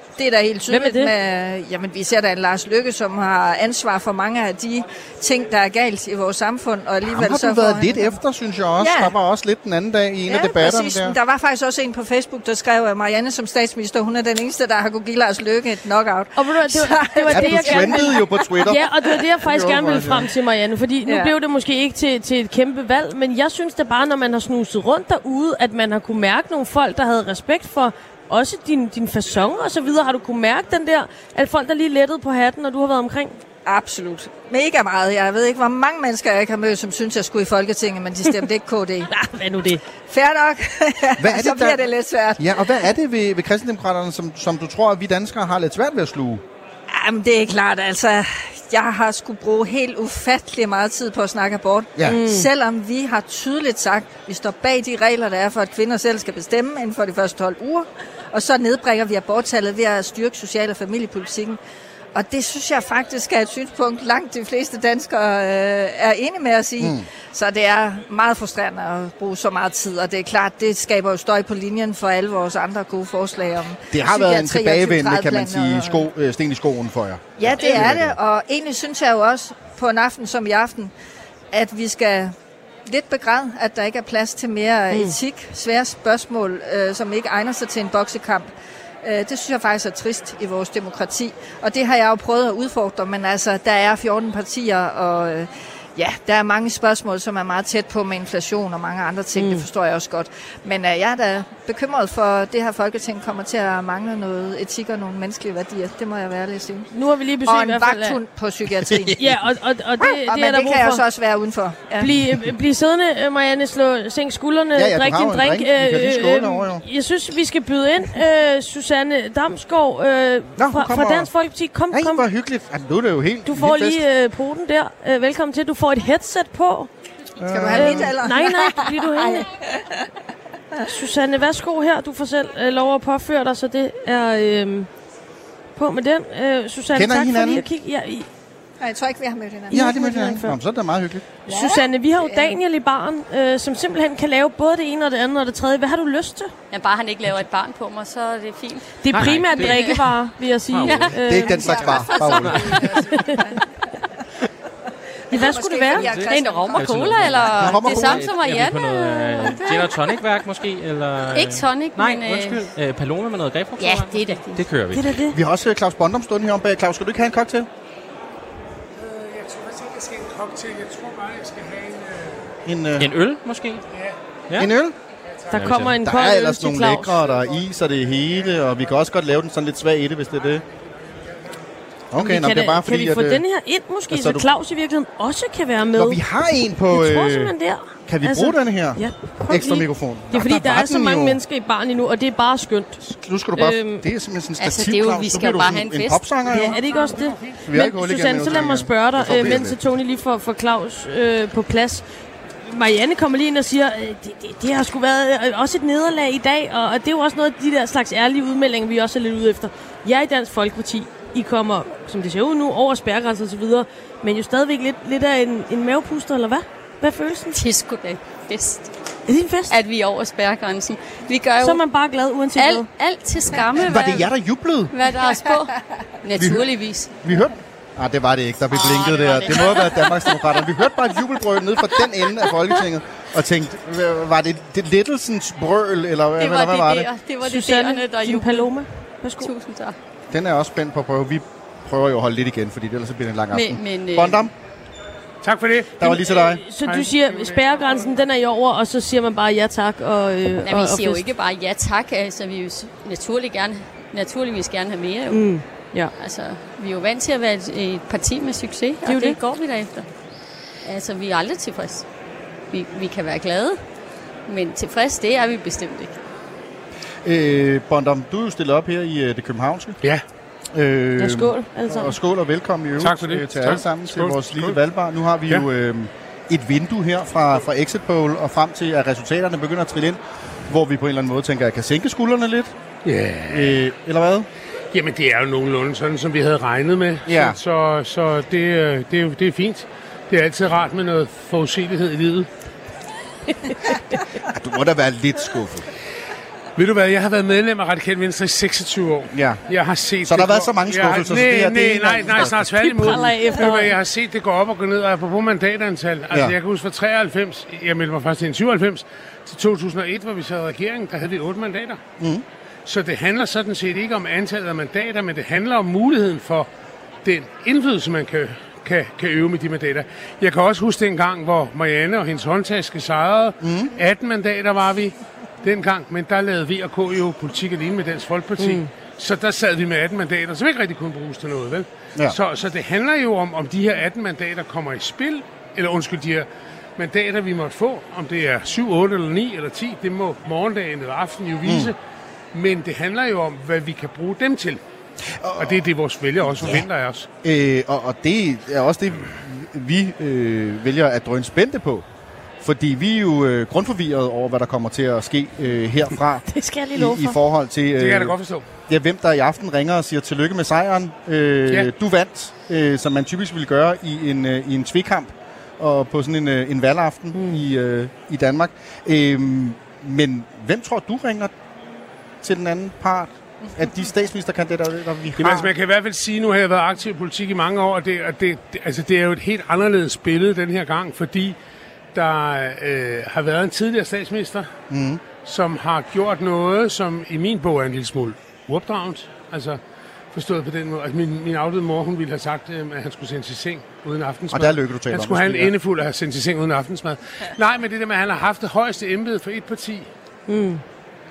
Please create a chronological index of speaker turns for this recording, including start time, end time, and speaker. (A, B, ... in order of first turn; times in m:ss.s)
0:00.2-0:08.2 A
0:00.7-0:01.1 B
0:07.0-0:11.2 C
0:08.8-0:09.1 A
0:10.3-0:18.5 A
0:16.3-0:33.4 B
0:17.3-0:18.8 C
0:19.4-0:20.3 C
0:21.0-0:21.3 A
0:33.6-0:39.1 A
0:39.1-0:39.8 B
0:40.1-0:42.5 A
0:41.2-0:41.8 C
0:42.4-0:46.4 C
0:46.9-1:01.6 A
0:52.1-0:52.5 B
1:02.1-1:16.0 A
1:06.8-1:07.0 C
1:13.9-1:18.2 C
1:17.4-1:20.9 A
1:21.5-1:22.3 A
1:22.9-1:28.5 A
1:24.9-1:25.2 B
1:29.0-1:46.9 A
1:39.4-1:39.6 B
1:46.9-1:48.2 B
1:47.4-1:49.2 A
1:49.1-1:51.0 B
1:50.0-1:52.1 A
1:52.0-2:02.2 B
1:54.7-1:56.8 C
2:00.6-2:01.3 C
2:01.9-2:04.0 C
2:03.4-2:06.9 B
2:07.4-2:08.2 C
2:07.4-2:09.9 A
2:07.7-2:09.4 B
2:10.9-2:14.9 B
2:15.8-2:18.3 B
2:16.9-2:17.6 C
2:18.8-2:20.0 A
2:19.7-2:20.6 B
2:19.7-2:21.2 C
2:21.5-2:26.5 B
2:21.5-2:22.6 A
2:26.7-2:30.1 D
2:29.0-2:31.7 B
2:29.1-2:29.9 E
2:30.7-2:31.2 E
2:30.8-2:33.2 D
2:31.2-2:32.8 C
2:31.7-2:33.6 A
2:32.0-2:33.1 E
2:32.7-2:33.4 B
2:35.3-2:37.2 A
2:35.3-2:36.1 B
2:36.0-2:40.2 D
2:36.0-2:45.2 E
2:37.6-2:38.2 C
2:41.3-2:42.7 D
2:43.8-2:44.6 D
2:44.9-2:45.4 B
2:45.3-2:47.7 C
2:49.0-2:52.5 F
2:52.6-2:53.1 C
2:53.0-2:53.8 E
2:54.6-2:54.9 C
2:55.5-2:57.2 B
2:55.5-2:56.0 E
2:56.0-3:00.6 C
3:02.1-3:03.4 C
3:02.2-3:06.2 B
3:04.1-3:04.5 C
3:05.9-3:07.5 C
3:06.8-3:13.0 B
3:08.1-3:11.4 C
3:13.0-3:16.8 C
3:13.5-3:14.0 B
3:14.6-3:16.3 D
3:16.5-3:22.0 B
3:16.7-3:17.6 F
3:17.6-3:19.8 C
3:22.7-3:37.6 B
3:37.5-3:38.9 D
3:39.3-3:39.8 B
3:39.7-3:41.8 D
3:41.6-3:42.9 B
3:42.5-3:44.3 D
3:43.9-3:44.9 C
3:44.9-3:47.2 D
3:46.4-3:46.6 C
3:47.2-3:57.1 C
3:48.7-3:50.6 D
3:56.4-3:58.8 D
3:57.4-3:59.5 B
3:59.3-3:59.9 D
4:00.3-4:04.5 C
4:03.5-4:04.5 D
4:05.4-4:08.2 F
4:06.0-4:06.6 C
4:06.0-4:11.3 B
4:10.6-4:15.6 D
4:15.3-4:16.1 B
4:16.1-4:20.1 D
4:19.0-4:19.4 B
4:20.8-4:22.0 D
4:22.7-4:23.8 D
4:24.5-4:26.2 D
4:27.2-4:30.0 C
4:30.7-4:42.7 C
4:31.2-4:32.2 B
4:33.0-4:34.8 F
4:43.0-4:43.8 F
4:43.5-4:44.5 C
4:44.9-4:52.5 F
4:47.2-4:47.6 C
4:54.5-4:55.9 C
4:56.8-5:12.0 F
4:59.3-4:59.6 C
5:00.2-5:02.7 C
5:02.6-5:03.9 B
5:12.8-5:16.7 F
5:17.2-5:42.0 F
5:23.6-5:23.9 C
5:28.6-5:28.9 B
5:41.6-5:41.9 C
5:42.5-5:44.8 F
5:45.3-5:45.9 C
5:45.6-5:47.3 F
5:46.5-5:46.8 C
5:47.4-5:52.0 C
5:52.6-6:11.5 C
5:56.5-5:57.4 B
5:57.9-5:58.7 F
6:07.3-6:07.6 B
6:12.4-6:15.7 C
6:15.4-6:21.6 F
6:22.1-6:24.7 F
6:24.9-6:25.2 C
6:25.3-6:29.8 F
6:30.3-6:40.1 F
6:34.5-6:35.7 C
6:40.5-6:40.8 B